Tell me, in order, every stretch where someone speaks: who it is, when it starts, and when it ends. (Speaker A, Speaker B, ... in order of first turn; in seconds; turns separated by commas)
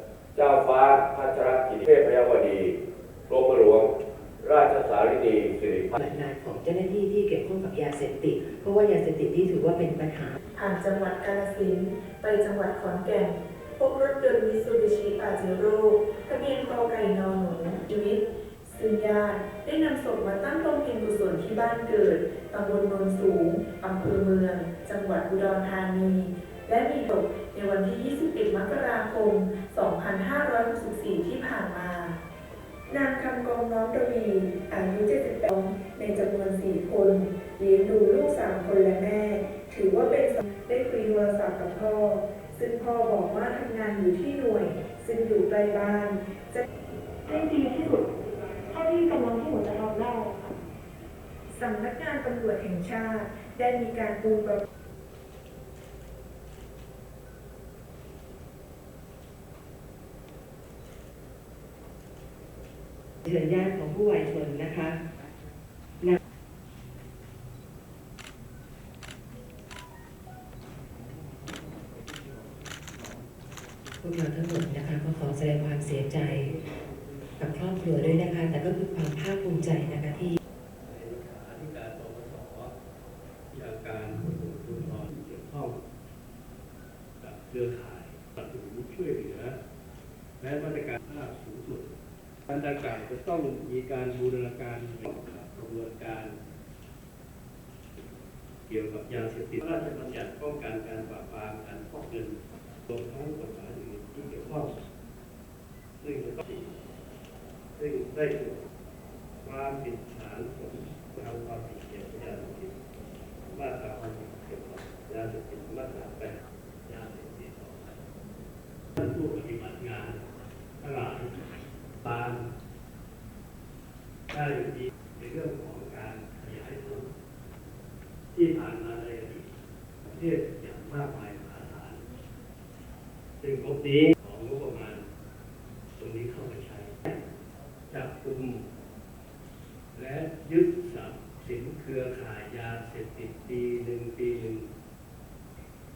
Speaker A: 0.3-2.8, Speaker A: 3.3-3.9, Speaker A: 4.4-6.0, Speaker B: 6.0-10.4, Speaker C: 10.5-32.2, Speaker C: 32.9-46.6, Speaker C: 47.3-48.0, Speaker D: 47.4-48.0, Speaker C: 48.7-50.4, Speaker D: 48.7-50.5, Speaker C: 51.5-54.6, Speaker B: 63.2-65.0, Speaker B: 74.0-76.6, Speaker B: 77.4-80.4, Speaker E: 80.8-82.7, Speaker E: 83.5-85.8, Speaker E: 87.2-89.6, Speaker E: 90.4-91.9, Speaker E: 92.5-96.4, Speaker E: 98.7-104.7, Speaker E: 106.0-106.8, Speaker E: 107.8-108.7, Speaker E: 109.4-112.8, Speaker E: 113.5-118.0, Speaker E: 119.0-120.2, Speaker E: 120.8-121.3, Speaker E: 122.0-122.5, Speaker E: 124.3-127.1, Speaker E: 128.3-129.5, Speaker E: 130.1-132.0, Speaker E: 133.4-135.1, Speaker E: 136.0-137.2, Speaker E: 137.9-138.7, Speaker E: 139.9-144.7